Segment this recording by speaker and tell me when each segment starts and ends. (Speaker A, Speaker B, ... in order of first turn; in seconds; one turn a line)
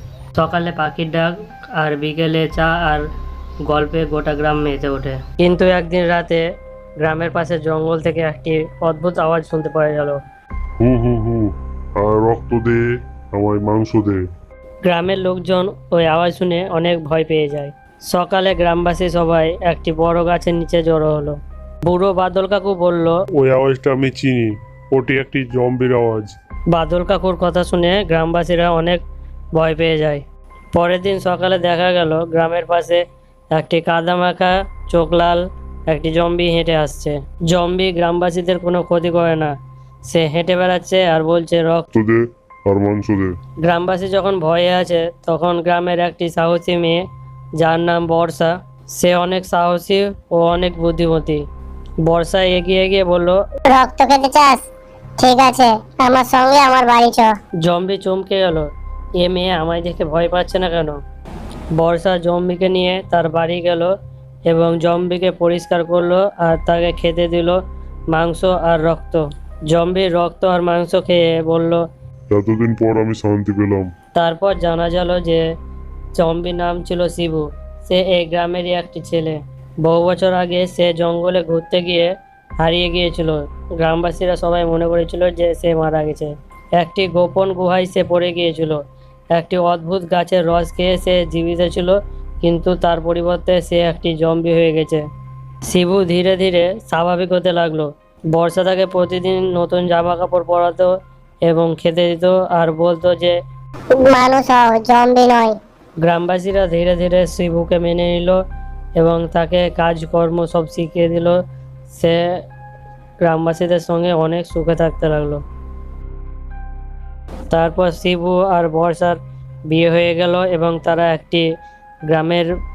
Speaker A: 0.3-3.0
Speaker A: 3.6-6.4
Speaker A: 7.0-10.2
Speaker B: 10.8-14.2
Speaker A: 14.8-23.2
Speaker B: 23.4-26.3
Speaker A: 26.7-29.0
Speaker A: 29.5-30.2
Speaker A: 30.7-39.5
Speaker A: 40.1-41.9
Speaker B: 41.9-43.3
Speaker A: 43.6-47.0
Speaker A: 47.6-51.4
Speaker A: 52.0-53.4
Speaker C: 53.7-54.7
Speaker C: 55.2-57.4
Speaker A: 57.6-61.0
Speaker A: 61.8-63.9
Speaker A: 64.5-67.6
Speaker A: 68.1-71.8
Speaker B: 72.3-73.9
Speaker A: 74.1-75.4
Speaker A: 76.1-88.8
Speaker A: 89.3-95.0
Speaker A: 95.7-100.9
Speaker A: 101.5-103.4
Speaker C: 103.9-105.6
Speaker A: 106.0-108.4
Speaker A: 109.0-111.4
Speaker A: 111.9-112.2
Speaker A: 113.2-115.4
Speaker A: 117.5-121.5
Speaker A: 122.1-122.5